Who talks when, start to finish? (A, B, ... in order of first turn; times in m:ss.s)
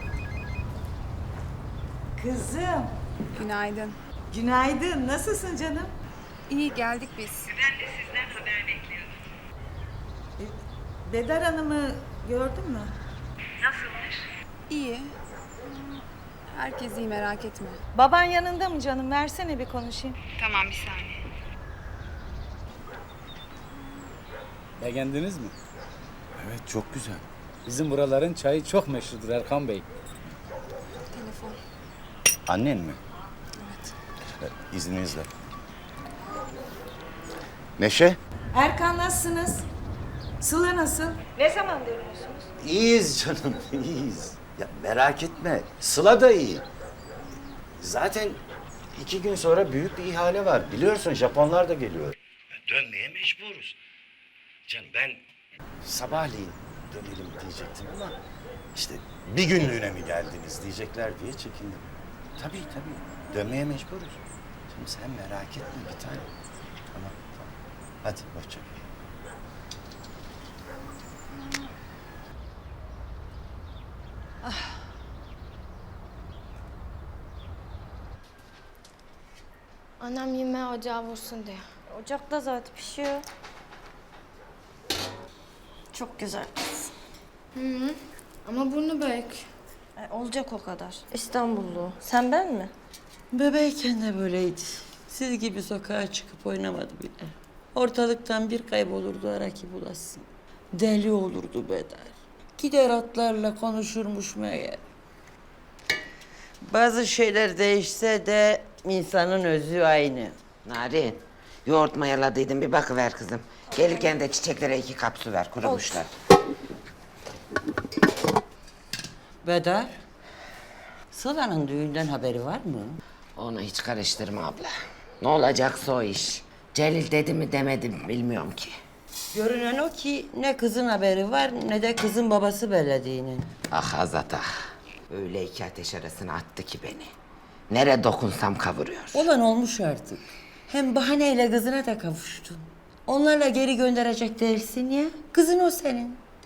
0:02.2-0:02.9 A
0:03.3-0:04.0 B
0:04.3-0:05.9 A
0:06.5-0:07.6 B
0:11.1-0:12.9 A
0:14.7-0:15.2 B
0:16.5-0:17.8 B
0:18.0-0:20.2 A
0:20.4-0:21.2 B
0:24.8-0:25.5 C
0:26.4-0:27.2 D
0:27.7-0:29.8 C
0:31.1-0:31.6 B
0:32.5-0:33.0 D
0:33.6-0:33.9 B
0:34.4-0:35.3 D
0:37.8-0:38.2 D
0:38.5-0:39.6 A
0:40.4-0:42.2 A
0:42.6-0:46.6 D
0:47.8-0:48.4 D
0:49.0-0:52.2 D
0:52.7-0:53.8 D
0:54.7-0:55.2 D
0:55.8-0:58.2 D
0:58.8-1:01.8 D
1:02.4-1:04.2 D
1:04.7-1:06.3 D
1:06.9-1:07.5 D
1:08.0-1:08.8 D
1:20.0-1:21.7 E
1:21.9-1:23.2 F
1:25.9-1:26.5 F
1:27.6-1:29.5 E
1:30.0-1:32.7 F
1:33.3-1:40.2 G
1:40.8-1:44.8 G
1:46.6-1:50.4 G
1:50.6-1:56.1 H
1:59.4-2:00.0 G
2:01.1-2:03.0 G
2:03.4-2:04.7 H
2:05.2-2:08.7 H
2:09.3-2:13.5 G
2:13.7-2:14.5 H
2:15.1-2:17.1 H
2:17.7-2:19.3 H
2:19.1-2:26.2 G